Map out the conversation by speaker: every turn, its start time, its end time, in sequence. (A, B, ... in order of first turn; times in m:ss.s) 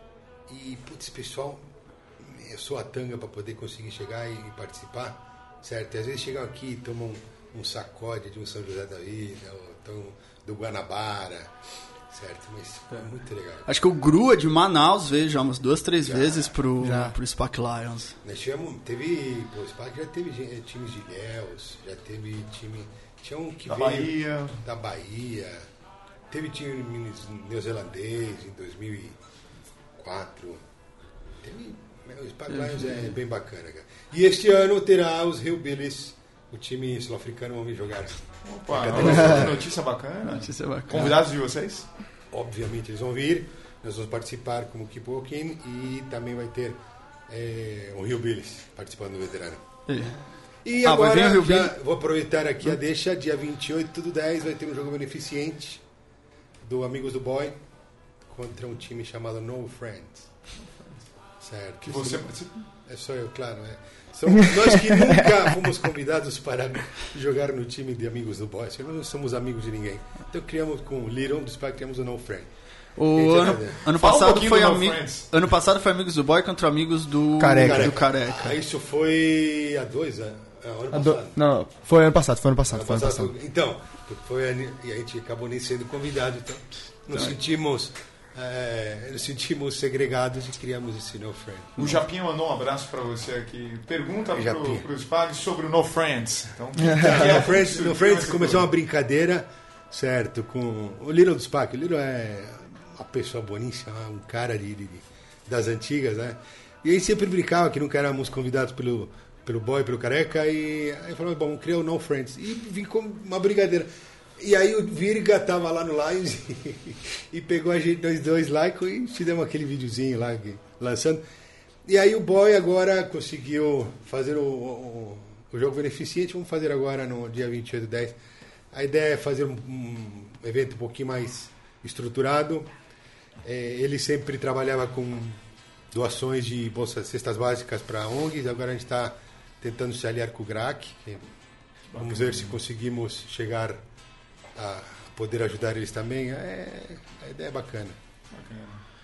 0:00.5-0:11.5 A
0:12.1-0:13.7 A
0:13.7-0:18.2 B
0:16.0-0:16.6 A
0:16.8-0:17.1 C
0:18.2-0:25.7 A
0:23.7-0:24.6 D
0:26.3-0:29.2 A
0:30.0-0:30.6 A
0:31.4-0:39.7 A
0:38.4-0:41.9 D
0:40.3-0:41.1 B
0:42.3-0:49.6 A
0:49.9-0:50.2 B
0:50.6-0:55.8 A
0:50.8-0:51.7 B
0:56.6-0:57.6 A
0:58.3-1:00.3 A
1:01.4-1:02.3 A
1:01.8-1:02.7 D
1:02.8-1:12.5 A
1:13.0-1:18.6 B
1:13.1-1:13.8 A
1:13.9-1:15.3 D
1:17.4-1:17.9 C
1:17.6-1:21.4 A
1:20.9-1:23.3 C
1:22.7-1:32.0 A
1:31.8-1:38.7 D
1:34.3-1:34.8 A
1:36.9-2:01.2 A
2:01.8-2:08.2 A
2:08.7-2:12.7 A
2:13.4-2:15.4 A
2:15.9-2:21.2 A
2:21.9-2:22.6 D
2:22.0-2:23.8 A
2:24.6-2:28.0 A
2:28.3-2:28.8 D